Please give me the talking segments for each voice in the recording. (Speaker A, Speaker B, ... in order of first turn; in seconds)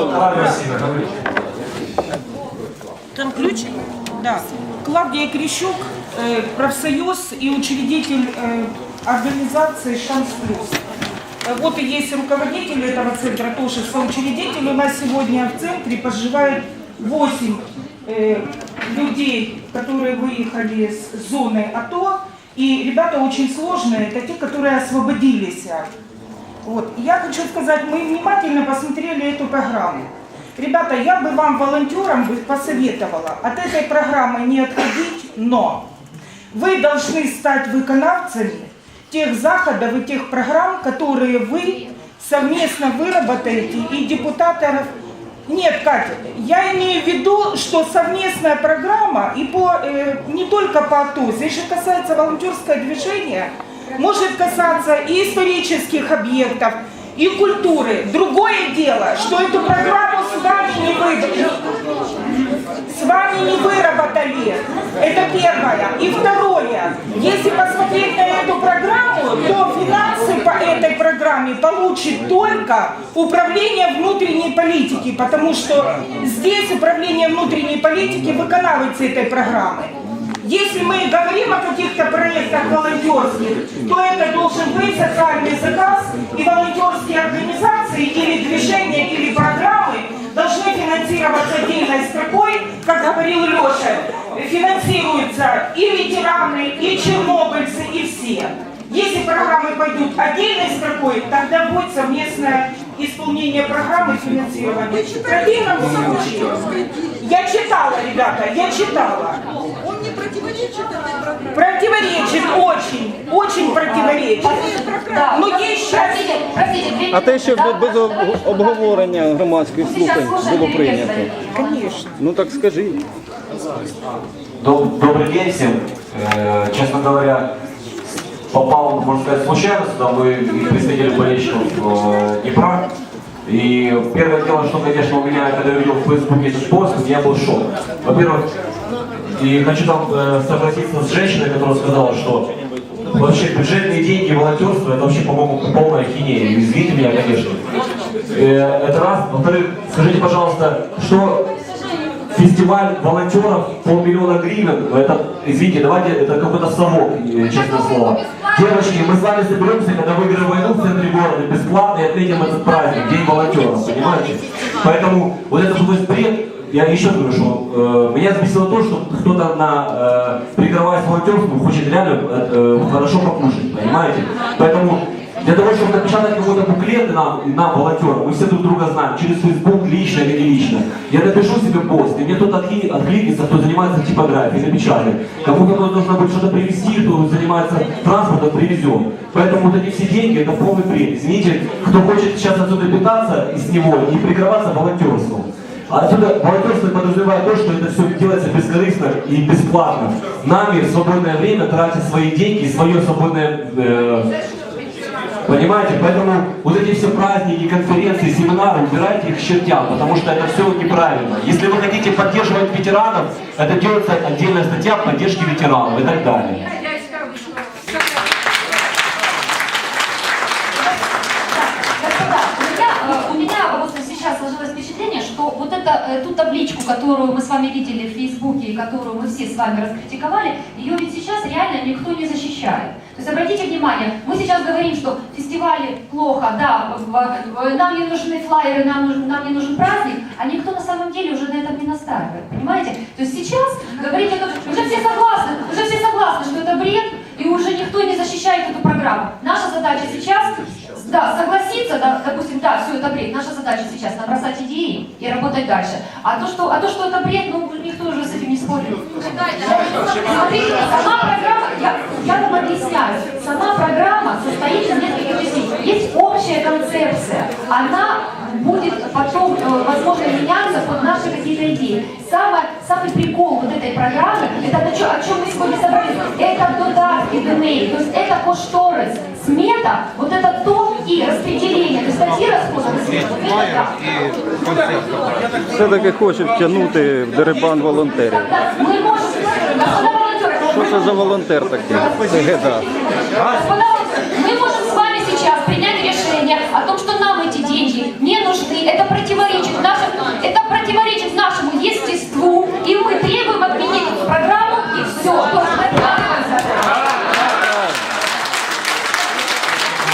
Speaker A: 0.2-1.0, 124.6-127.5, 128.5-132.8, 133.5-138.5, 139.3-142.5, 143.1-147.6, 148.3-151.5, 152.3-204.3, 205.4-216.7
Speaker B: 3.1-10.8, 11.4-25.9, 26.6-35.9, 36.5-44.9, 45.5-61.6, 62.9-106.7, 107.2-109.5, 111.5-116.3, 121.5-122.1
Speaker C: 113.9-119.1, 119.8-121.9, 221.5-284.0, 288.3-291.3, 291.9-306.9
Speaker D: 117.1-121.4, 122.2-123.0, 285.7-288.4, 290.7-292.8